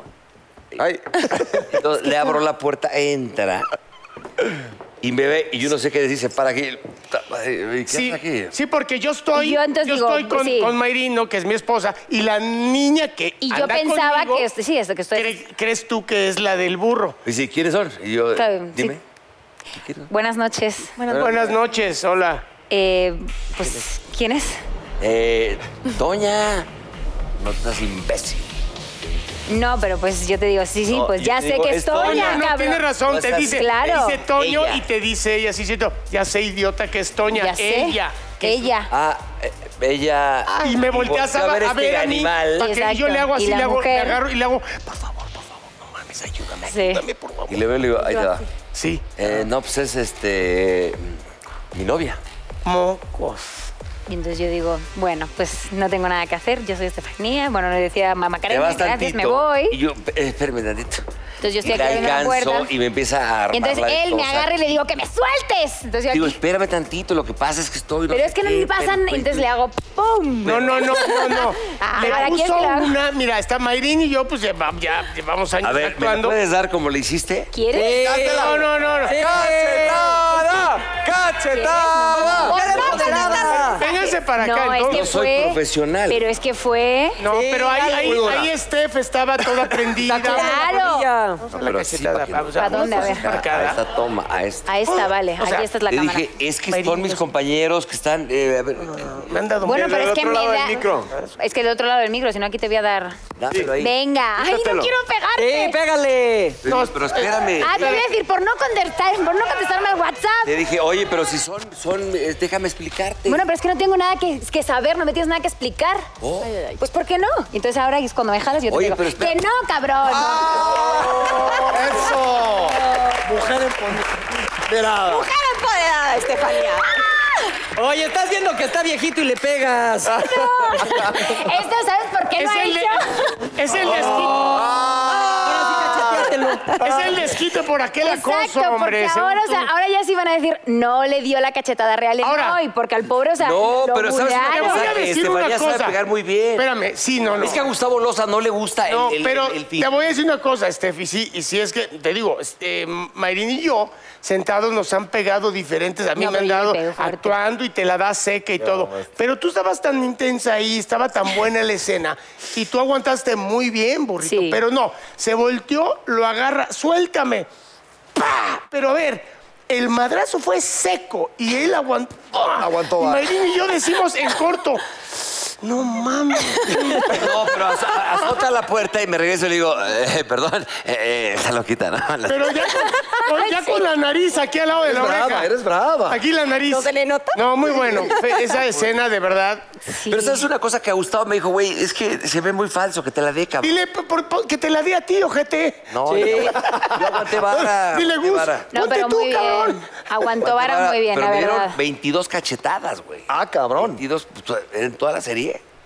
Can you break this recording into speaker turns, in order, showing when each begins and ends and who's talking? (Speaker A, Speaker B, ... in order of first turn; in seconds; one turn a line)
Speaker A: 0.8-1.7
Speaker B: 1.6-3.7
Speaker B: 5.0-8.5
Speaker C: 7.9-14.5
Speaker D: 9.3-10.7
Speaker D: 13.4-15.4
Speaker C: 15.1-17.2
Speaker B: 17.2-19.0
Speaker D: 18.3-19.0
Speaker B: 19.8-20.1
Speaker D: 20.1-21.2
Speaker C: 21.1-22.5
Speaker D: 22.7-24.6
Speaker B: 25.0-26.7
Speaker B: 27.4-28.6
Speaker D: 29.5-34.2
Speaker B: 30.9-32.5
Speaker C: 31.9-38.7
Speaker B: 33.0-34.8
Speaker D: 37.3-38.9
Speaker B: 38.9-42.7
Speaker C: 40.6-47.7
Speaker D: 42.6-44.2
Speaker D: 46.6-47.0
Speaker B: 47.5-48.4
Speaker C: 48.7-49.0
Speaker B: 49.2-51.2
Speaker B: 51.7-52.2
Speaker C: 52.6-53.7
Speaker D: 54.1-59.8
Speaker B: 58.5-61.0
Speaker D: 61.4-62.7
Speaker B: 61.6-64.6
Speaker D: 63.5-66.4
Speaker B: 66.1-69.5
Speaker D: 68.1-71.3
Speaker C: 70.4-76.4
Speaker E: 71.8-72.2
Speaker D: 71.9-73.0
Speaker B: 75.6-77.5
Speaker D: 77.5-78.2
Speaker F: 77.7-80.3
Speaker A: 78.0-82.5
Speaker C: 78.3-79.2
Speaker D: 81.5-87.2
Speaker F: 82.3-83.8
Speaker E: 82.4-83.9
Speaker C: 83.7-85.1
Speaker B: 84.9-86.2
Speaker C: 87.2-90.7
Speaker F: 87.3-88.5
Speaker F: 90.0-91.4
Speaker D: 90.2-91.1
Speaker C: 91.4-93.8
Speaker B: 91.6-94.7
Speaker D: 92.5-93.3
Speaker D: 94.7-96.3
Speaker C: 94.9-95.7
Speaker B: 95.9-99.4
Speaker C: 96.7-97.2
Speaker C: 98.8-100.1
Speaker D: 99.6-103.2
Speaker A: 99.7-101.1
Speaker C: 101.1-101.3
Speaker B: 103.4-103.9
Speaker D: 103.7-105.8
Speaker A: 104.4-104.9
Speaker F: 105.4-106.6
Speaker B: 106.6-108.1
Speaker C: 106.7-108.0
Speaker D: 107.6-110.6
Speaker B: 110.4-113.4
Speaker D: 113.3-116.1
Speaker B: 116.2-116.5
Speaker E: 116.4-116.8
Speaker D: 116.8-120.7
Speaker B: 118.7-119.4
Speaker G: 120.0-125.3
Speaker E: 121.3-122.0
Speaker E: 125.0-127.1
Speaker F: 127.8-130.3
Speaker D: 130.2-133.2
Speaker C: 132.4-134.5
Speaker F: 133.9-136.8
Speaker A: 134.5-135.7
Speaker E: 136.0-137.1
Speaker C: 136.8-139.7
Speaker D: 138.0-145.0
Speaker C: 142.2-142.6
Speaker B: 143.4-146.7
Speaker C: 144.4-145.9
Speaker C: 146.6-147.6
Speaker B: 147.3-150.1
Speaker C: 148.9-167.5
Speaker D: 156.2-157.4
Speaker A: 158.6-159.1
Speaker D: 164.2-164.6
Speaker C: 168.1-174.8
Speaker G: 172.5-173.3
Speaker C: 175.5-177.5
Speaker B: 176.9-182.7
Speaker C: 182.3-185.5
Speaker D: 183.1-183.8
Speaker G: 184.8-186.2
Speaker C: 186.1-189.7
Speaker E: 186.7-188.6
Speaker D: 189.8-190.4
Speaker B: 190.1-193.8
Speaker C: 193.6-199.8
Speaker B: 195.9-198.7
Speaker F: 196.1-196.7
Speaker D: 198.7-201.8
Speaker B: 200.4-205.6
Speaker G: 203.3-204.0